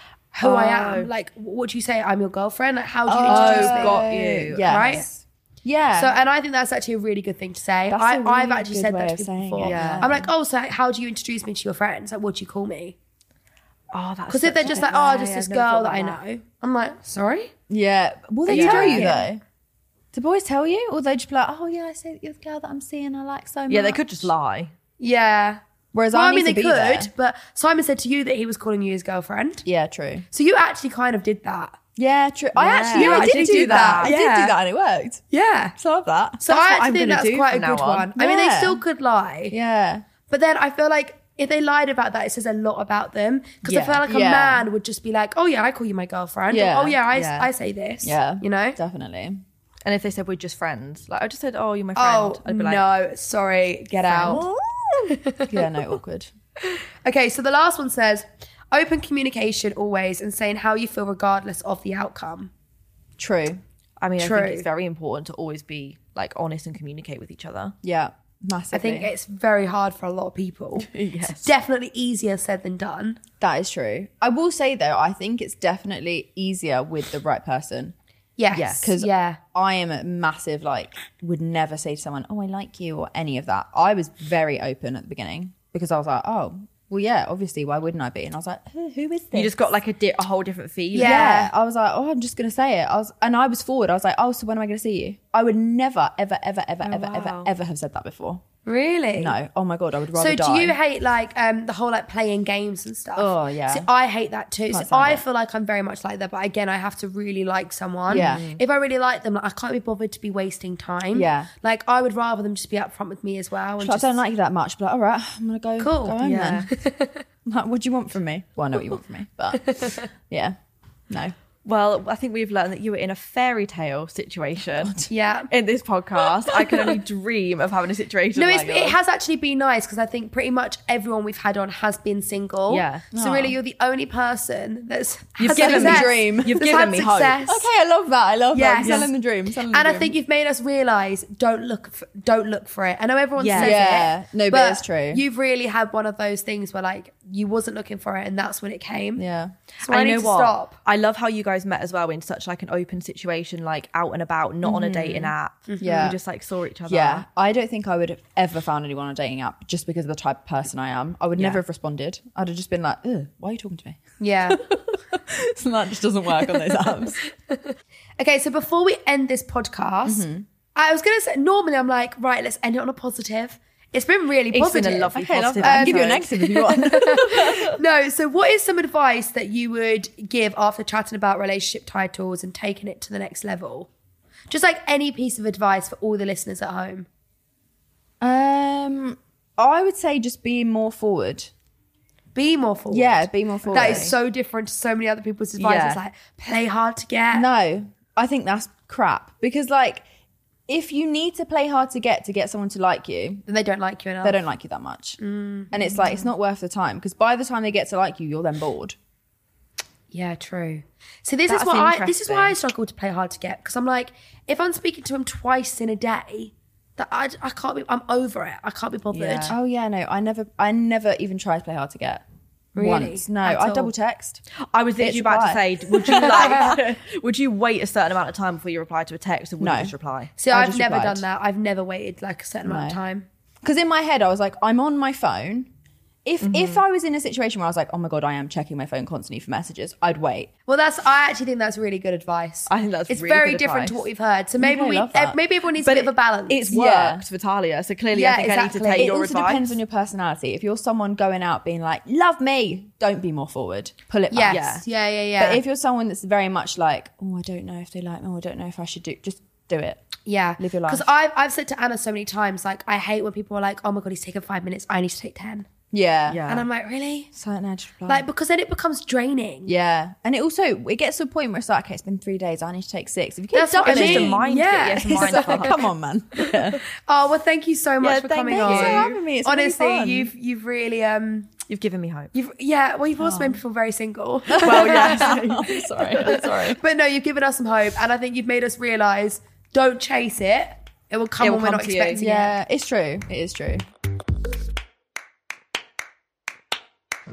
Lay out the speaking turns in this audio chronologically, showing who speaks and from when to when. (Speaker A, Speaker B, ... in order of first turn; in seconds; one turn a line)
Speaker A: 0.3-4.1
Speaker B: 0.4-1.1
Speaker C: 3.0-6.2
Speaker B: 3.2-5.0
Speaker A: 4.6-5.0
Speaker A: 5.9-12.9
Speaker C: 7.9-10.3
Speaker B: 9.6-10.1
Speaker B: 13.9-16.2
Speaker A: 14.3-17.5
Speaker C: 17.7-19.4
Speaker A: 18.4-19.3
Speaker B: 18.5-19.1
Speaker C: 20.1-24.3
Speaker B: 23.7-24.7
Speaker A: 25.0-25.6
Speaker C: 25.9-27.1
Speaker A: 26.1-29.6
Speaker C: 29.6-30.2
Speaker A: 30.3-31.8
Speaker C: 32.0-35.2
Speaker B: 32.5-34.1
Speaker A: 32.9-34.5
Speaker A: 35.3-35.7
Speaker C: 35.8-36.4
Speaker A: 36.4-39.5
Speaker B: 36.5-38.1
Speaker C: 38.1-38.8
Speaker C: 39.5-40.1
Speaker A: 40.3-48.8
Speaker B: 43.6-44.0
Speaker C: 44.0-44.6
Speaker C: 46.5-47.0
Speaker B: 47.1-47.5
Speaker C: 48.0-49.4
Speaker B: 49.8-52.8
Speaker A: 52.0-54.4
Speaker C: 54.1-54.5
Speaker B: 54.1-55.1
Speaker A: 55.1-55.7
Speaker C: 55.4-56.3
Speaker A: 56.7-62.5
Speaker C: 63.2-63.6
Speaker B: 64.0-67.7
Speaker A: 64.2-64.7
Speaker C: 67.8-69.1
Speaker A: 68.7-73.2
Speaker B: 70.8-71.5
Speaker C: 73.4-77.9
Speaker A: 78.4-79.4
Speaker B: 78.5-78.8
Speaker C: 78.8-89.6
Speaker B: 89.3-91.3
Speaker A: 90.9-91.5
Speaker C: 90.9-98.4
Speaker B: 96.8-97.5
Speaker A: 98.6-99.4
Speaker C: 99.2-100.8
Speaker A: 100.1-114.2
Speaker C: 103.2-103.9
Speaker C: 104.7-105.2
Speaker C: 108.1-108.4
Speaker B: 108.1-108.6
Speaker C: 111.1-111.5
Speaker C: 113.8-116.7
Speaker A: 115.8-117.2
Speaker B: 116.2-116.7
Speaker C: 117.5-120.6
Speaker A: 119.6-120.1
Speaker C: 121.1-121.3
Speaker B: 121.7-125.0
Speaker C: 124.8-125.1
Speaker A: 125.1-125.5
Speaker B: 125.5-128.9
Speaker A: 126.5-127.0
Speaker A: 128.3-137.7
Speaker B: 132.7-133.0
Speaker C: 133.1-133.6
Speaker B: 135.4-137.4
Speaker C: 135.5-140.1
Speaker A: 138.5-139.1
Speaker B: 138.8-139.1
Speaker A: 139.7-149.2
Speaker B: 143.4-143.8
Speaker C: 143.6-145.2
Speaker C: 149.2-149.6
Speaker A: 149.8-150.8
Speaker B: 149.8-157.2
Speaker C: 154.6-156.2
Speaker A: 155.7-156.2
Speaker C: 156.9-167.2
Speaker A: 164.2-164.6
Speaker A: 168.2-176.1
Speaker C: 170.0-170.4
Speaker B: 174.5-176.4
Speaker C: 175.1-177.7
Speaker A: 176.6-183.9
Speaker A: 184.5-187.1
Speaker C: 188.2-191.5
Speaker A: 192.3-197.5
Speaker C: 192.9-194.1
Speaker B: 193.8-194.1
Speaker B: 195.6-196.0
Speaker C: 197.3-200.0
Speaker C: 200.7-203.4
Speaker A: 203.4-204.4
Speaker C: 204.2-205.2
Speaker A: 205.2-206.2
Speaker C: 205.7-208.9
Speaker A: 210.1-219.6
Speaker B: 211.5-212.6
Speaker B: 219.1-219.5
Speaker C: 219.5-222.2
Speaker A: 222.7-223.9
Speaker C: 222.8-224.4
Speaker B: 224.7-230.3
Speaker C: 225.0-226.3
Speaker A: 226.2-226.8
Speaker C: 229.6-229.9
Speaker A: 230.4-233.3
Speaker C: 230.5-231.2
Speaker C: 232.6-233.0
Speaker C: 233.6-235.7
Speaker C: 236.2-240.5
Speaker B: 236.4-236.8
Speaker A: 240.7-246.7
Speaker B: 242.7-244.1
Speaker C: 244.6-245.4
Speaker B: 245.8-249.8
Speaker C: 246.7-247.2
Speaker A: 248.1-249.1
Speaker C: 249.0-254.6
Speaker A: 254.3-255.6
Speaker B: 254.5-254.8
Speaker C: 255.4-260.0
Speaker A: 260.2-265.7
Speaker C: 260.6-261.1
Speaker C: 265.9-266.4
Speaker B: 266.3-266.6
Speaker A: 266.5-267.3
Speaker C: 267.3-268.2
Speaker A: 268.1-269.7
Speaker C: 269.6-276.8
Speaker A: 273.5-281.5
Speaker B: 273.8-275.8
Speaker B: 278.0-279.2
Speaker C: 278.5-280.3
Speaker B: 281.7-282.3
Speaker A: 282.3-292.5
Speaker C: 283.2-283.6
Speaker C: 284.5-286.8
Speaker B: 284.6-286.4
Speaker B: 291.4-292.2
Speaker C: 292.1-293.8